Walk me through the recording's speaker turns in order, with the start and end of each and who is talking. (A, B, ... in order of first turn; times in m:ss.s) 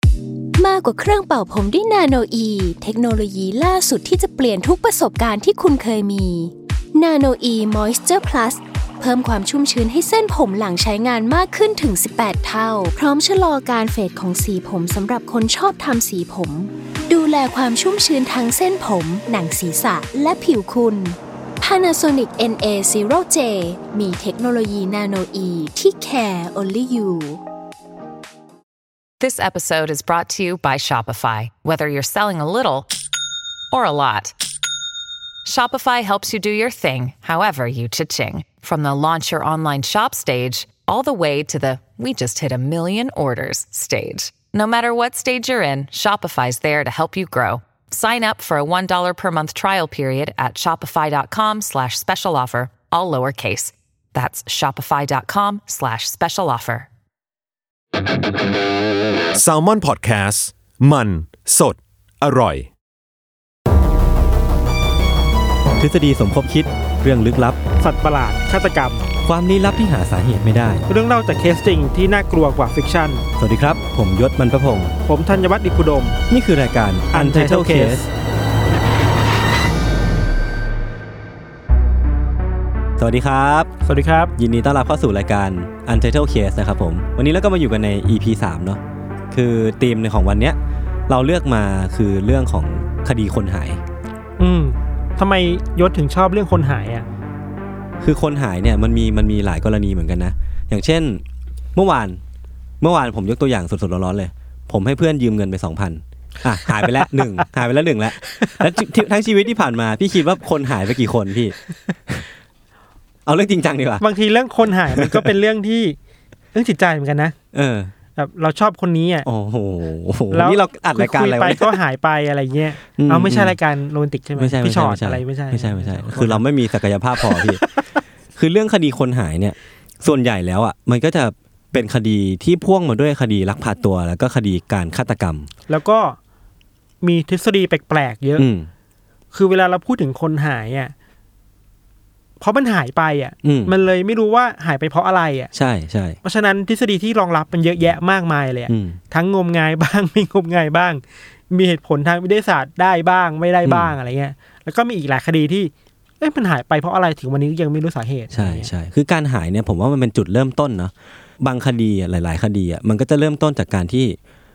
0:00.6-0:27.4 A
0:29.2-0:32.9 B
0:33.7-0:34.3 B
0:35.4-0:56.9 B
0:59.3-1:02.7 C
1:05.8-1:07.6 D
1:07.8-1:09.1 E
1:09.2-1:10.8 D
1:10.9-1:13.2 E
1:13.4-1:14.9 D
1:15.0-1:16.2 E
1:16.3-1:18.1 D
1:17.1-1:18.1 E
1:23.0-1:23.7 D
1:23.8-1:24.3 E
1:24.4-1:33.8 D
1:34.4-1:37.0 E
1:38.0-1:41.2 D
1:41.7-1:42.2 D
1:42.8-1:51.6 D
1:46.6-1:47.4 E
1:48.2-1:48.7 E
1:53.2-1:54.0 D
1:54.0-1:56.0 E
1:54.9-1:55.3 D
1:56.5-1:57.3 E
1:57.5-1:57.9 D
1:58.2-1:59.3 E
1:59.2-2:01.8 D
2:00.3-2:06.4 E
2:03.0-2:03.6 D
2:04.4-2:07.6 D
2:07.2-2:07.8 E
2:08.3-2:15.5 D
2:15.7-2:16.2 E
2:17.0-2:18.5 E
2:18.4-2:18.7 D
2:19.3-2:20.9 E
2:22.4-2:25.5 E
2:23.4-2:23.7 D
2:25.5-2:26.2 D
2:26.2-2:38.7 E
2:28.7-2:29.0 D
2:33.6-2:33.9 D
2:38.3-2:44.2 D